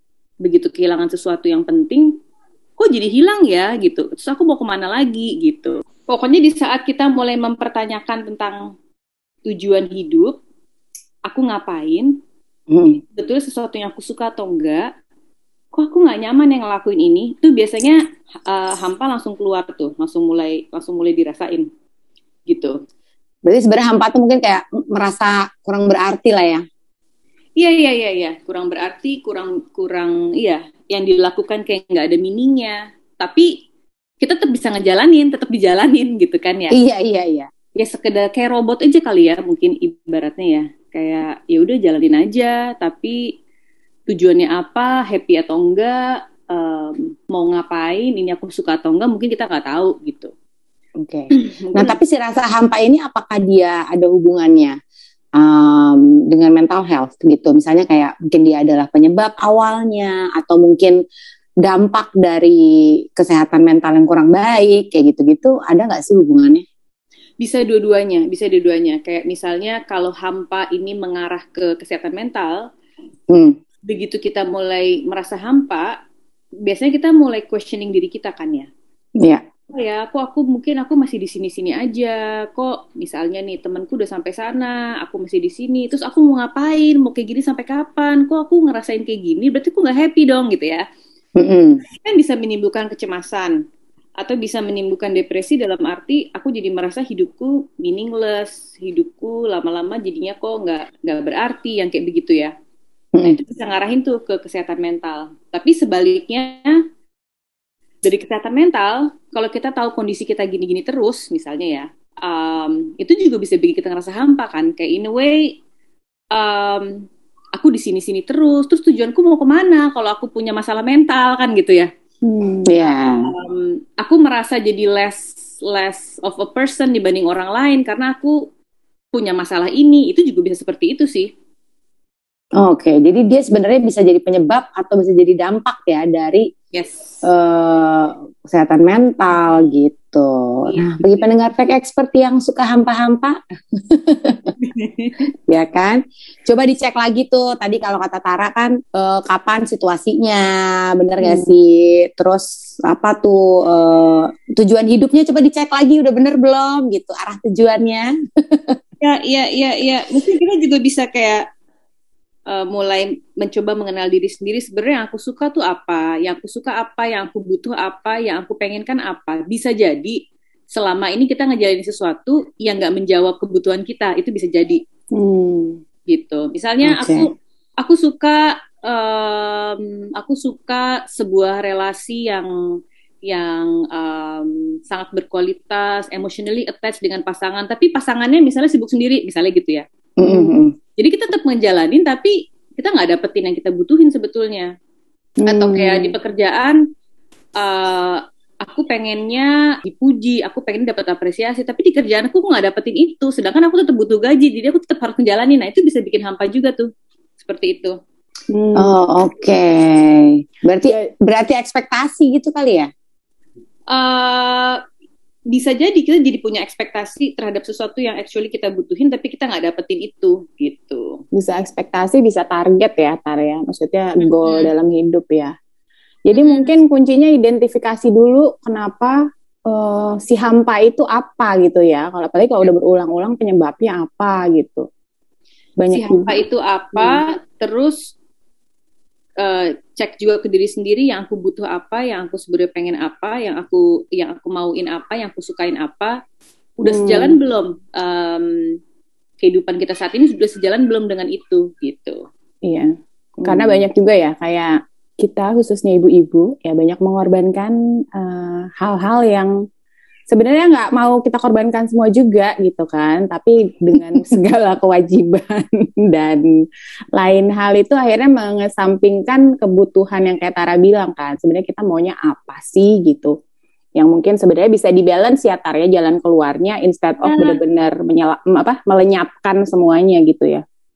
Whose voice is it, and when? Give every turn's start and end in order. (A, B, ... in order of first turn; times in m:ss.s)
0:00.4-0:02.1 A
0:02.8-0:08.7 A
0:09.4-0:10.4 A
0:11.2-0:12.2 A
0:12.7-0:13.0 B
0:13.1-0:14.9 A
0:15.7-0:21.7 A
0:22.5-0:22.8 A
0:23.4-0:26.6 B
0:27.6-0:33.6 A
0:34.2-0:36.8 A
0:36.7-0:37.5 B
0:37.8-0:43.3 A
0:44.1-0:50.3 A
0:51.0-0:54.8 B
0:55.4-1:01.0 B
1:01.6-1:06.6 B
1:07.4-1:12.6 A
1:13.3-1:13.6 B
1:13.9-1:15.9 A
1:16.6-1:18.7 A
1:19.7-1:30.8 A
1:31.4-1:31.8 B
1:32.0-1:33.6 A
1:34.2-1:42.5 A
1:43.2-1:46.8 A
1:48.0-1:55.6 A
1:56.3-2:01.9 A
2:02.2-2:02.7 C
2:02.6-2:03.3 B
2:03.3-2:08.4 A
2:09.1-2:11.3 A
2:12.6-2:16.5 B
2:16.7-2:17.2 A
2:17.2-2:24.5 B
2:24.6-2:25.2 A
2:25.5-2:38.8 B
2:31.2-2:31.5 C
2:39.0-2:41.4 A
2:42.5-2:50.2 A
2:50.7-2:54.8 A
2:55.1-2:55.8 C
2:56.1-3:02.5 A
2:56.8-2:57.3 B
3:03.3-3:09.8 A
3:10.2-3:10.7 B
3:10.2-3:10.5 C
3:11.0-3:14.7 A
3:15.4-3:16.2 C
3:15.5-3:16.8 A
3:17.6-3:26.9 A
3:27.4-3:28.0 A
3:28.5-3:28.9 C
3:28.7-3:32.9 B
3:33.9-3:34.8 A
3:35.5-3:41.2 A
3:41.3-3:45.5 C
3:44.2-3:44.7 A
3:46.3-3:54.8 C
3:46.3-3:46.7 A
3:55.8-3:56.4 C
3:55.9-3:58.1 A
3:59.4-4:06.2 A
4:06.8-4:08.8 A
4:06.8-4:07.4 C
4:09.4-4:12.2 A
4:12.6-4:19.5 C
4:13.4-4:13.8 B
4:20.3-4:26.4 C
4:27.1-4:33.3 C
4:34.0-4:40.6 C
4:37.2-4:37.6 A